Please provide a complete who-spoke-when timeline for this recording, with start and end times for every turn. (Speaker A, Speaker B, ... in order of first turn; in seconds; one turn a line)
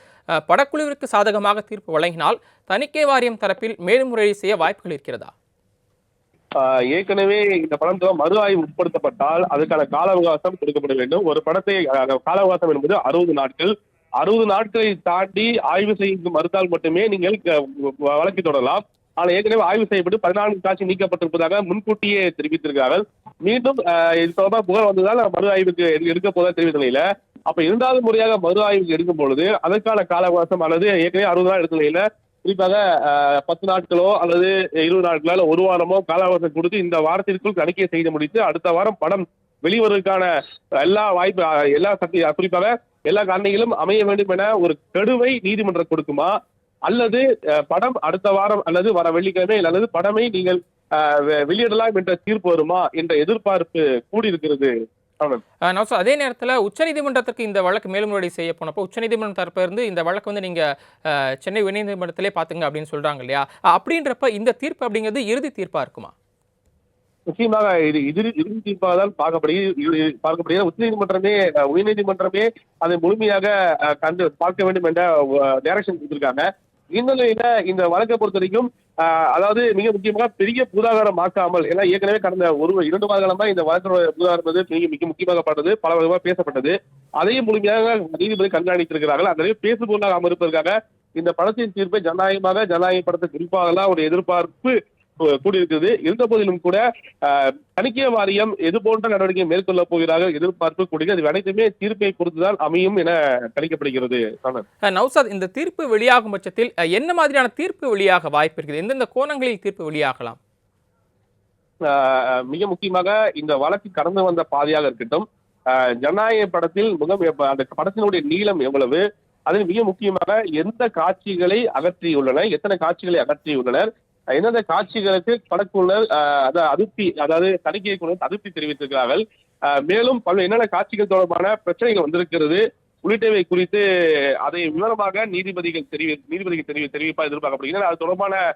Speaker A: 0.4-5.3
Speaker B: 6.6-46.3
Speaker B: 46.9-55.4
Speaker A: 55.7-66.1
Speaker B: 67.3-104.6
Speaker A: 104.9-110.4
Speaker B: 111.9-133.8
Speaker B: 134.4-138.4